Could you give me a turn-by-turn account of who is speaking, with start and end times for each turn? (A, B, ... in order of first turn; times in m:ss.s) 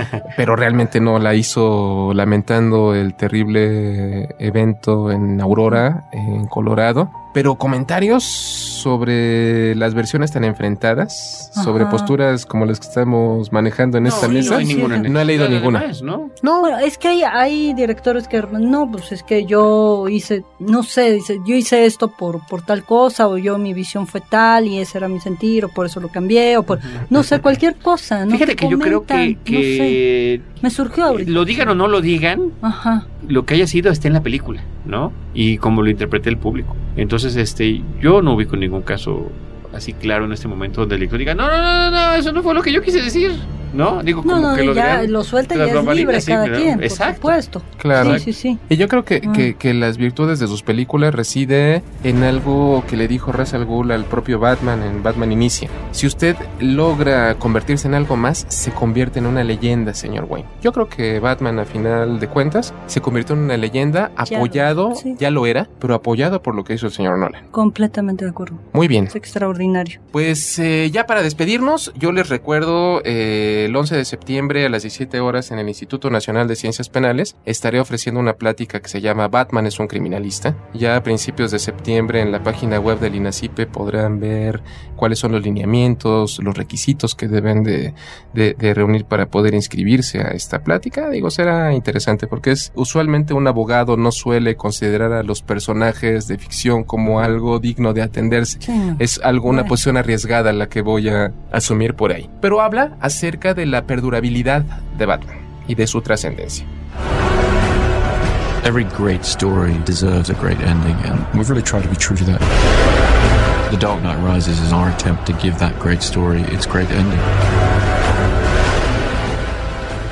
0:00.3-0:15.8 A
0:11.6-0:12.1 B
0:14.0-0:16.3 C
0:14.1-0:15.1 B
0:16.4-0:16.7 A
0:16.6-0:30.0 B
0:26.7-0:27.4 C
0:28.3-0:30.5 C
0:30.6-0:31.8 B
0:31.1-0:32.6 C
0:32.6-0:33.1 B
0:33.2-0:47.4 C
0:44.2-0:48.6 B
0:47.8-1:07.4 A
0:48.0-0:48.3 C
0:49.2-0:49.5 B
1:04.3-1:05.2 B
1:07.5-1:10.0 B
1:08.7-1:09.1 A
1:10.1-1:46.7 A
1:37.1-1:37.4 C
1:38.6-1:39.8 B
1:48.6-1:52.4 D
1:53.7-1:57.2 D